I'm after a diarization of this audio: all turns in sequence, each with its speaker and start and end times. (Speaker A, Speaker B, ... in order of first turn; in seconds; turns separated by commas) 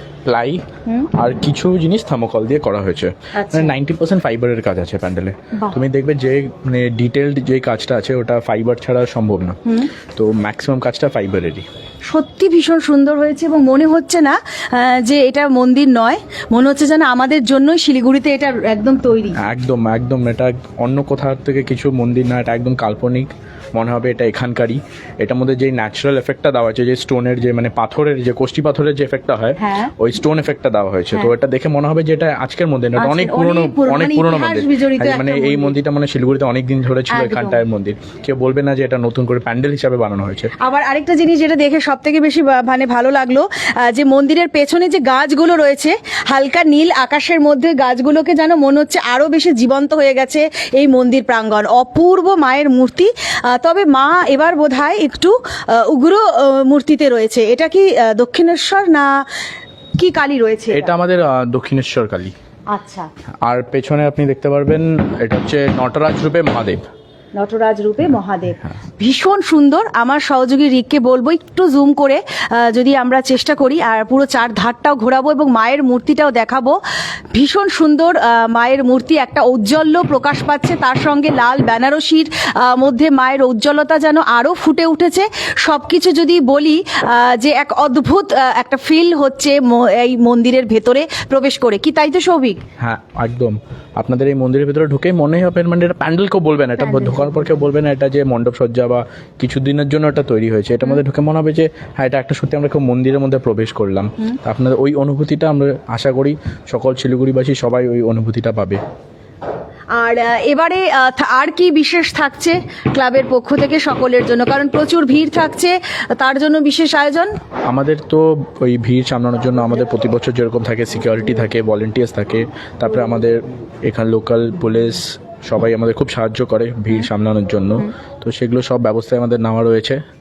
Speaker A: 0.2-9.6, Speaker B: 3.3-3.7, Speaker B: 9.6-9.9, Speaker A: 10.1-11.6, Speaker B: 12.1-19.4, Speaker A: 19.4-40.5, Speaker B: 29.6-29.9, Speaker B: 33.0-35.7, Speaker B: 37.1-37.6, Speaker B: 40.6-59.2, Speaker B: 60.0-60.9, Speaker A: 60.7-62.3, Speaker B: 62.7-63.1, Speaker A: 63.4-66.8, Speaker B: 67.3-76.8, Speaker B: 77.3-92.6, Speaker A: 92.8-108.8, Speaker B: 109.9-117.4, Speaker A: 117.7-130.0